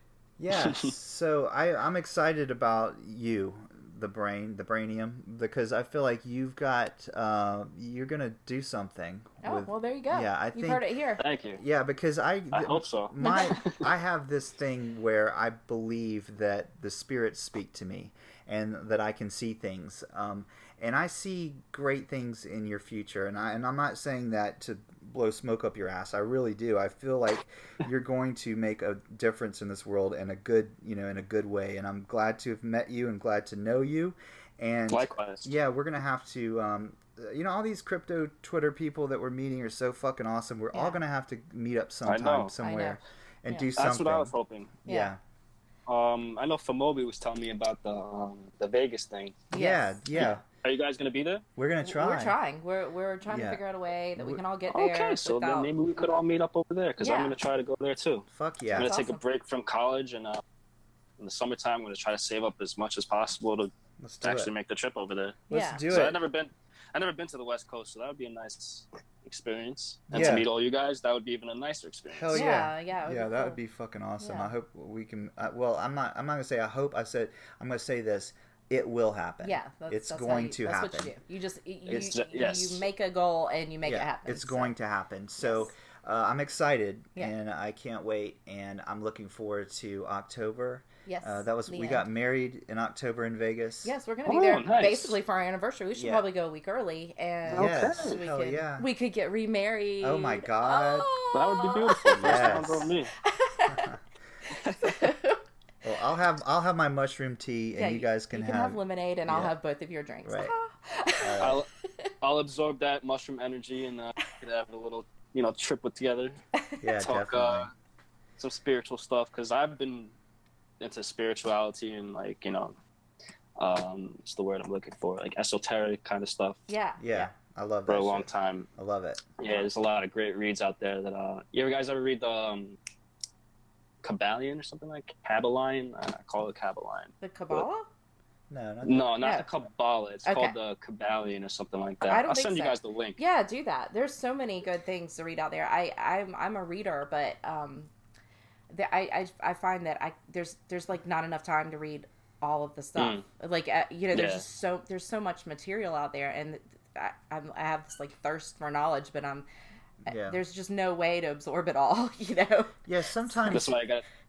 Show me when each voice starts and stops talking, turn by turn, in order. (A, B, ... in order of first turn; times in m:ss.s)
0:00.4-0:10.8 A
0:00.5-0:00.9 B
0:09.4-0:11.2 C
0:11.2-0:11.6 B
0:11.6-0:45.2 A
0:12.5-0:13.9 B
0:13.2-0:13.6 C
0:34.9-0:35.5 B
0:40.7-0:41.0 C
0:42.1-0:42.6 B
0:42.6-0:43.6 C
0:43.8-0:44.7 B
0:44.9-0:45.1 C
0:45.9-0:49.4 B
0:49.5-0:50.4 C
0:49.6-0:50.4 A
0:50.2-0:51.4 B
0:51.6-0:52.4 A
0:51.8-0:55.7 C
0:53.3-0:53.6 A
0:54.7-1:00.4 B
0:57.0-0:57.4 C
0:58.3-0:58.9 A
0:58.8-0:59.2 C
1:01.2-1:03.7 B
1:04.0-1:04.5 A
1:04.2-1:12.4 B
1:05.5-1:06.2 A
1:05.5-1:05.8 C
1:10.1-1:10.5 A
1:12.1-1:21.2 A
1:12.3-1:13.6 C
1:14.2-1:14.5 C
1:19.4-1:24.7 C
1:21.9-1:22.8 B
1:21.9-1:22.1 A
1:23.8-1:33.9 A
1:25.4-1:25.7 C
1:31.1-1:32.1 C
1:33.8-1:42.7 C
1:34.2-1:35.2 B
1:36.0-1:36.2 A
1:37.5-1:38.9 A
1:37.5-1:38.2 B
1:40.0-1:41.1 A
1:41.3-1:43.1 B
1:42.2-1:42.9 A
1:43.2-1:43.9 C
1:43.7-1:44.0 A
1:44.5-1:45.0 B
1:44.8-1:45.4 C
1:45.8-1:49.5 A
1:47.8-1:52.1 C
1:50.2-1:50.5 A
1:51.2-1:51.6 A
1:51.4-1:51.7 B
1:52.2-1:56.4 B
1:56.8-1:57.7 A
1:57.0-1:57.7 B
1:58.4-2:00.2 B
2:00.8-2:02.8 B
2:03.6-2:06.6 B
2:06.7-2:07.3 C
2:07.0-2:09.3 A
2:07.9-2:08.7 B
2:09.4-2:12.8 B
2:14.0-2:17.7 B
2:17.2-2:17.9 C
2:18.5-2:19.2 A
2:18.8-2:23.2 B
2:19.2-2:19.5 C
2:20.2-2:20.6 C
2:22.0-2:27.9 C
2:28.7-2:39.5 C
2:33.0-2:33.2 B
2:34.1-2:34.4 B
2:40.1-2:40.4 A
2:40.1-2:42.8 C
2:42.8-2:43.7 A
2:43.5-2:44.0 B